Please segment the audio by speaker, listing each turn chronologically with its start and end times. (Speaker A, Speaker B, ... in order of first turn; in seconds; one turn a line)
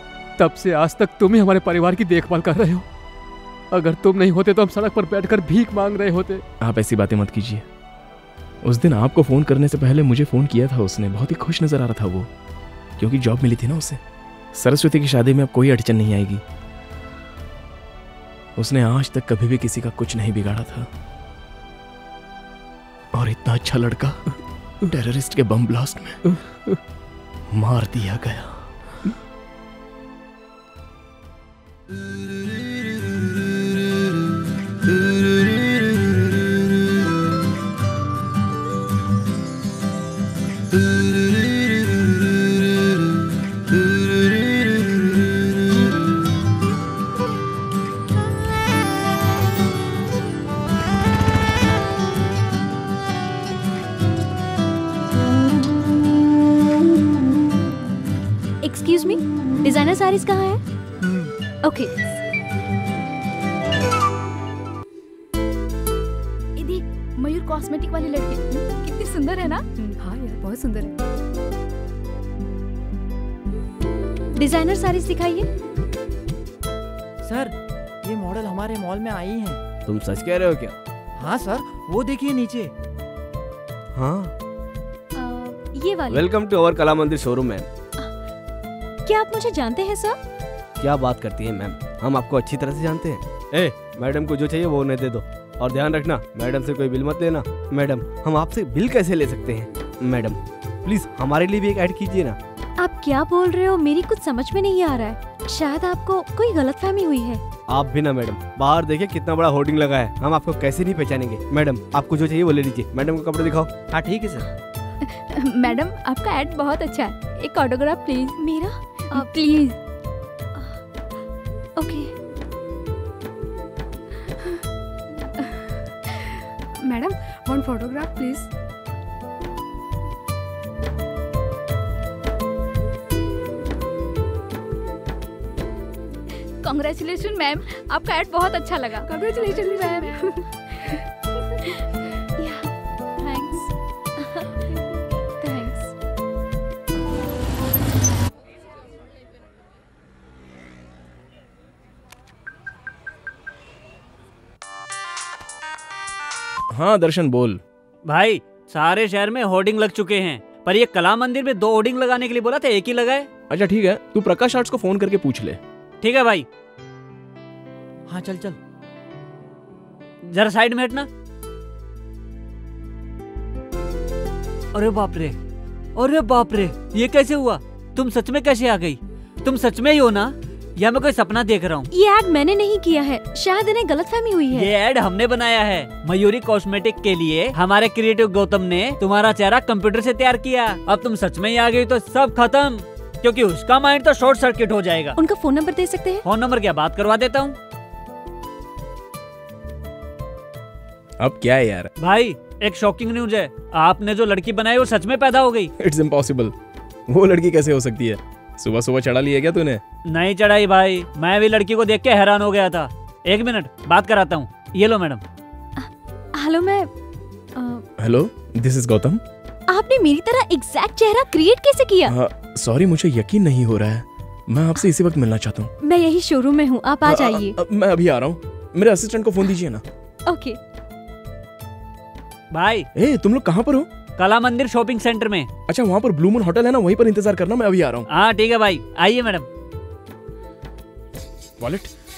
Speaker A: 0.4-2.8
Speaker A: 3.7-6.4
Speaker B: 6.6-7.6
Speaker B: 8.6-12.3
Speaker B: 13.0-14.0
Speaker B: 14.5-16.4
Speaker B: 18.6-20.9
Speaker B: 23.1-24.2
Speaker B: 24.8-26.3
Speaker B: 27.5-28.7
Speaker C: 58.6-60.6
Speaker C: 61.6-61.9
Speaker D: 66.6-69.9
Speaker E: 70.0-70.9
Speaker C: 74.4-75.5
Speaker F: 77.2-79.6
Speaker G: 79.8-80.8
Speaker F: 81.2-82.7
Speaker G: 84.0-84.3
Speaker C: 85.2-86.3
Speaker G: 86.1-87.7
Speaker C: 89.0-90.2
Speaker G: 90.8-102.4
Speaker C: 102.8-107.4
Speaker G: 107.7-113.7
Speaker D: 115.0-118.4
Speaker C: 118.4-119.4
Speaker D: 119.1-119.8
Speaker C: 121.8-122.1
Speaker E: 126.8-128.5
Speaker D: 136.6-140.2
Speaker E: 139.0-140.3
Speaker B: 156.7-157.6
Speaker H: 158.1-163.3
Speaker B: 163.5-165.6
Speaker H: 166.0-166.4
Speaker F: 168.1-168.6
Speaker H: 170.3-171.1
Speaker H: 174.7-175.4
Speaker H: 175.9-181.9
Speaker C: 181.9-184.7
Speaker H: 184.5-195.2
Speaker C: 195.2-196.2
Speaker H: 196.2-197.6
Speaker B: 201.2-201.9
Speaker H: 202.0-205.7
Speaker B: 205.8-206.5
Speaker B: 207.1-209.8
Speaker H: 210.1-215.2
Speaker C: 215.8-216.9
Speaker C: 217.6-217.8
Speaker B: 218.0-219.2
Speaker C: 219.7-222.1
Speaker B: 222.1-225.7
Speaker C: 225.8-227.6
Speaker B: 227.0-229.8
Speaker C: 230.3-230.6
Speaker H: 232.5-232.8
Speaker B: 232.9-233.9
Speaker H: 234.2-235.5
Speaker B: 235.7-238.1
Speaker H: 238.1-239.5
Speaker B: 241.6-241.9